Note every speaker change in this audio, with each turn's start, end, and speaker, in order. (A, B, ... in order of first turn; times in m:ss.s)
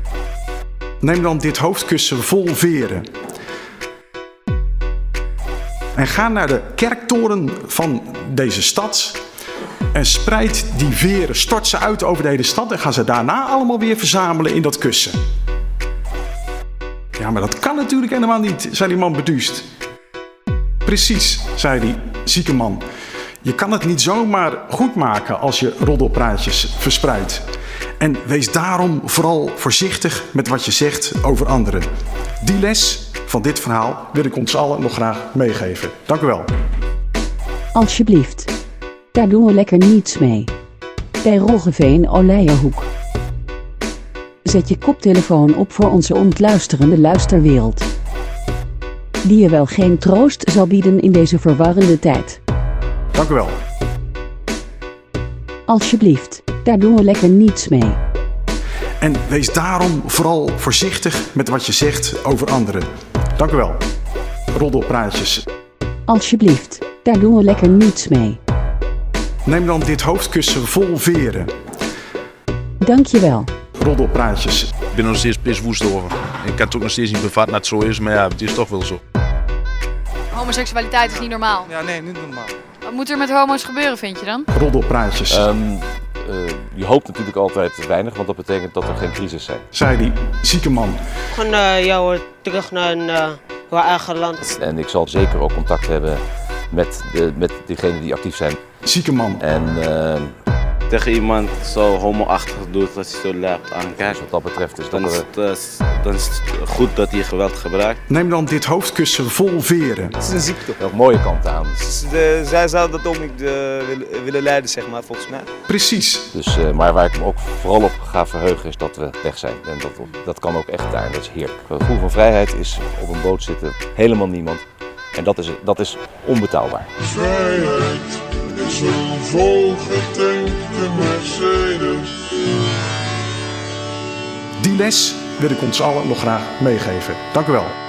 0:01.0-0:03.0 A
0:06.0-0:09.2 A
0:09.9-0:15.2 A
0:17.1-0:19.6 A
0:20.8-0:22.8 A
0:23.4-0:27.4 A
0:28.0-0:31.9 A
0:32.4-0:36.5 A
0:37.7-0:38.5 B
0:39.1-0:40.5 B
0:41.2-0:42.9 B
0:44.4-0:47.9 B
0:49.2-0:52.4 B
0:53.1-0:53.6 A
0:55.7-0:58.0 B
0:59.0-1:02.8 A
1:03.4-1:03.8 A
1:04.5-1:05.5 A
1:06.1-1:08.4 B
1:09.4-1:11.5 A
1:12.8-1:13.5 B
1:13.8-1:14.7 A
1:14.9-1:19.0 C
1:20.3-1:21.7 D
1:21.8-1:22.3 E
1:22.9-1:24.4 D
1:24.5-1:25.5 A
1:25.3-1:29.6 F
1:29.7-1:31.0 A
1:31.3-1:34.6 G
1:34.6-1:38.6 F
1:38.8-1:39.4 A
1:39.4-1:40.3 F
1:40.9-1:44.2 H
1:44.1-1:45.2 F
1:44.9-1:48.0 H
1:48.1-1:50.2 A
1:50.3-1:50.7 E
1:50.8-1:51.8 F
1:51.8-1:55.5 E
1:55.7-1:56.3 A
1:56.3-2:04.6 F
2:05.1-2:06.9 F
2:07.2-2:12.1 I
2:14.6-2:17.7 A